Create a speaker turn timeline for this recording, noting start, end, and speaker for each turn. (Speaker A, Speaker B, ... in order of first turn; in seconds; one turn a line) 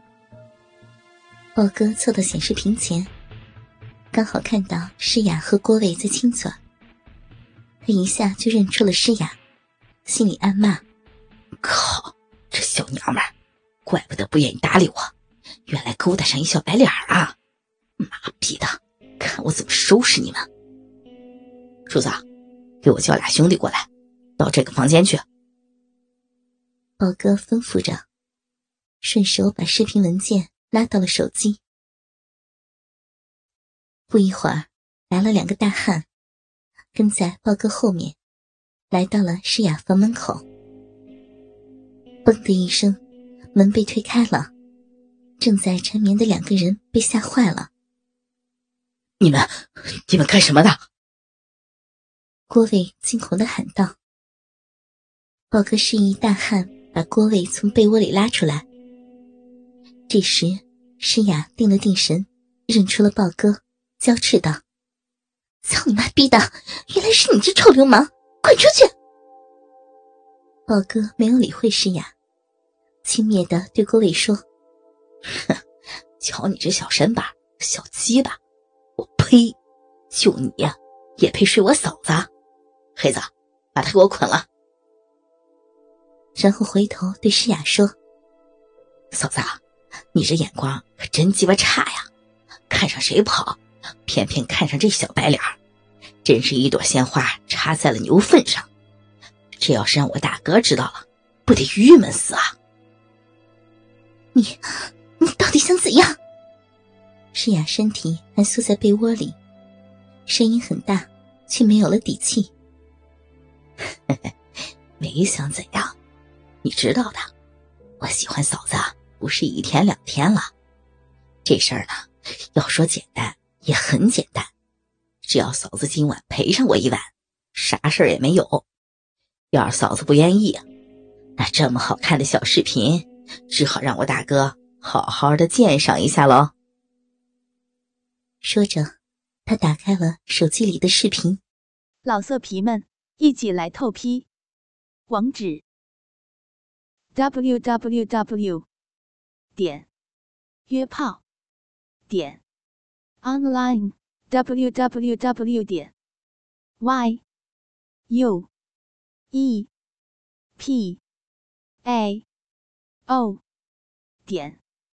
Speaker A: 1.6-3.1
Speaker A: 4.1-6.6
Speaker A: 7.8-9.4
Speaker A: 10.1-10.8
Speaker B: 11.6-13.3
Speaker B: 13.9-15.1
Speaker B: 15.7-17.4
Speaker B: 18.0-20.5
Speaker B: 21.9-22.2
Speaker B: 22.8-25.2
Speaker A: 27.0-28.0
Speaker A: 29.0-31.6
Speaker A: 34.1-36.1
Speaker A: 36.9-38.2
Speaker A: 38.9-40.4
Speaker A: 42.2-43.0
Speaker A: 43.5-44.5
Speaker A: 45.4-47.7
Speaker B: 49.2-50.8
Speaker A: 52.5-54.0
Speaker A: 55.5-58.6
Speaker A: 60.1-64.6
Speaker A: 65.6-68.9
Speaker A: 70.7-72.1
Speaker A: 73.0-74.4
Speaker B: 75.3-75.6
Speaker B: 76.2-78.4
Speaker B: 79.0-79.6
Speaker B: 80.1-82.3
Speaker B: 83.0-84.5
Speaker A: 86.4-87.9
Speaker B: 89.1-89.6
Speaker B: 90.1-92.1
Speaker B: 92.7-95.6
Speaker B: 96.2-98.7
Speaker B: 99.6-102.5
Speaker A: 104.3-106.2
Speaker A: 107.3-109.4
Speaker A: 110.2-112.5
Speaker B: 115.0-115.9
Speaker B: 116.6-117.3
Speaker B: 118.0-120.5
Speaker B: 121.5-124.5
Speaker B: 125.2-128.6
Speaker B: 129.5-130.6
Speaker B: 131.4-136.5
Speaker A: 138.4-138.9
Speaker A: 139.5-141.4
Speaker C: 142.0-144.3
Speaker C: 145.1-145.6
Speaker C: 147.1-148.7
Speaker C: 149.6-149.9
Speaker C: 150.7-151.2
Speaker C: 152.1-152.4
Speaker C: 153.2-155.9
Speaker C: 156.8-157.2
Speaker C: 158.1-158.5
Speaker C: 159.3-159.7
Speaker C: 160.6-161.0
Speaker C: 161.8-162.2
Speaker C: 163.1-163.4
Speaker C: 164.2-164.6